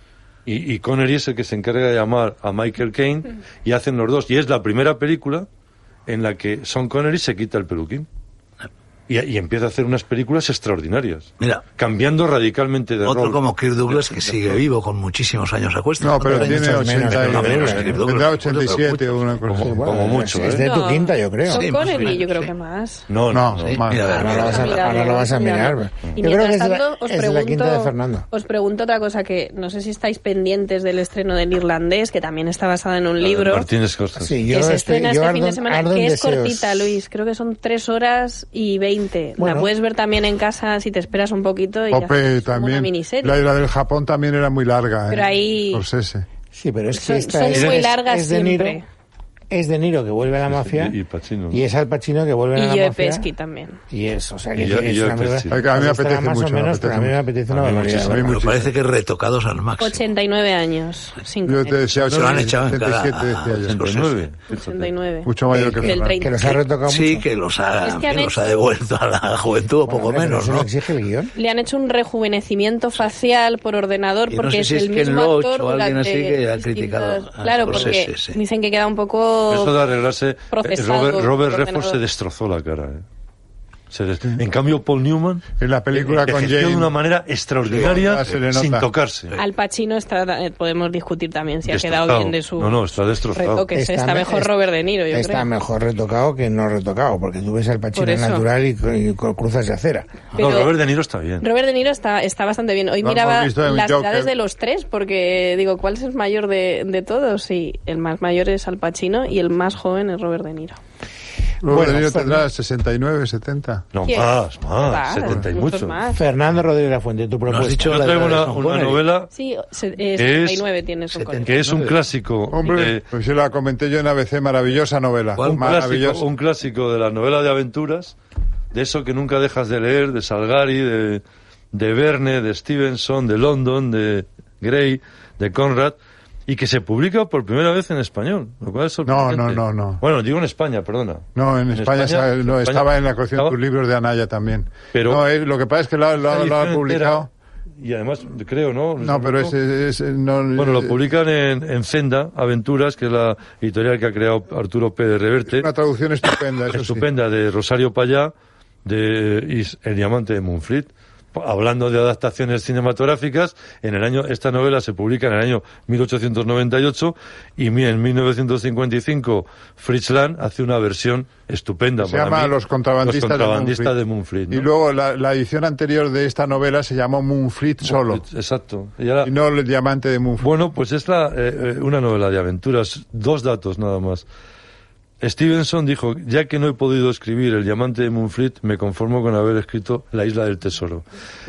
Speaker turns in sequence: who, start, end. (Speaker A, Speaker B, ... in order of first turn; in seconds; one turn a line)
Speaker A: 0.5-5.5
Speaker A: 6.1-8.1
Speaker A: 9.1-13.4
Speaker B: 11.4-11.6
Speaker B: 13.0-19.3
Speaker C: 16.0-20.0
Speaker D: 16.2-17.9
Speaker A: 19.5-20.6
Speaker D: 19.6-21.7
Speaker E: 20.4-23.1
Speaker B: 21.5-22.5
Speaker A: 23.1-23.8
Speaker C: 23.3-24.1
Speaker B: 23.6-25.0
Speaker D: 24.1-28.3
Speaker E: 24.2-33.7
Speaker A: 33.2-34.4
Speaker D: 34.1-37.0
Speaker E: 34.5-43.4
Speaker D: 39.4-39.7
Speaker C: 41.9-46.2
Speaker E: 45.1-45.9
Speaker D: 46.5-48.8
Speaker E: 46.9-48.9
Speaker A: 47.5-47.8
Speaker D: 49.5-51.0
Speaker A: 50.5-51.6
Speaker D: 51.5-53.3
Speaker E: 52.5-53.8
Speaker D: 53.9-58.3
Speaker A: 54.6-55.5
Speaker C: 55.5-57.2
Speaker A: 57.5-58.1
Speaker C: 57.9-58.7
Speaker B: 58.1-60.0
Speaker E: 59.8-62.2
Speaker C: 61.5-63.8
Speaker B: 62.0-64.3
Speaker A: 62.1-62.5
Speaker A: 63.6-64.9
Speaker E: 64.5-66.6
Speaker C: 65.3-66.2
Speaker D: 65.5-67.2
Speaker B: 66.9-70.7
Speaker E: 67.8-68.5
Speaker D: 69.9-71.3
Speaker E: 71.4-79.8
Speaker B: 74.3-78.4
Speaker A: 79.5-83.0
Speaker E: 80.5-82.0
Speaker A: 83.9-89.3
Speaker C: 85.6-86.9
Speaker B: 87.7-88.4
Speaker C: 87.7-88.9
Speaker E: 89.3-95.5
Speaker A: 91.7-93.6
Speaker D: 93.7-94.5
Speaker D: 95.1-100.1
Speaker E: 98.0-98.5
Speaker A: 100.3-101.5
Speaker E: 100.4-100.8
Speaker E: 101.4-110.8
Speaker C: 103.0-104.3
Speaker C: 111.6-113.9
Speaker D: 111.7-112.5
Speaker A: 113.9-116.0
Speaker E: 114.0-116.2
Speaker D: 116.1-118.4
Speaker B: 117.5-119.0
Speaker A: 117.9-119.3
Speaker E: 119.3-121.6
Speaker A: 120.2-120.6
Speaker B: 121.1-122.0
Speaker A: 121.5-123.0
Speaker C: 122.5-126.2
Speaker B: 125.4-125.7
Speaker A: 125.4-128.2
Speaker A: 128.7-142.8
Speaker C: 139.1-140.0
Speaker C: 141.4-147.3
Speaker A: 144.9-145.2
Speaker A: 146.3-147.3
Speaker A: 147.8-149.5
Speaker C: 149.0-151.0
Speaker A: 150.6-155.7
Speaker C: 155.5-157.1
Speaker A: 156.7-158.3
Speaker A: 158.8-172.5
Speaker C: 172.0-173.9
Speaker A: 173.0-174.7
Speaker C: 174.5-178.2
Speaker A: 177.9-179.3
Speaker C: 179.2-180.5
Speaker A: 180.4-184.3
Speaker A: 185.2-191.1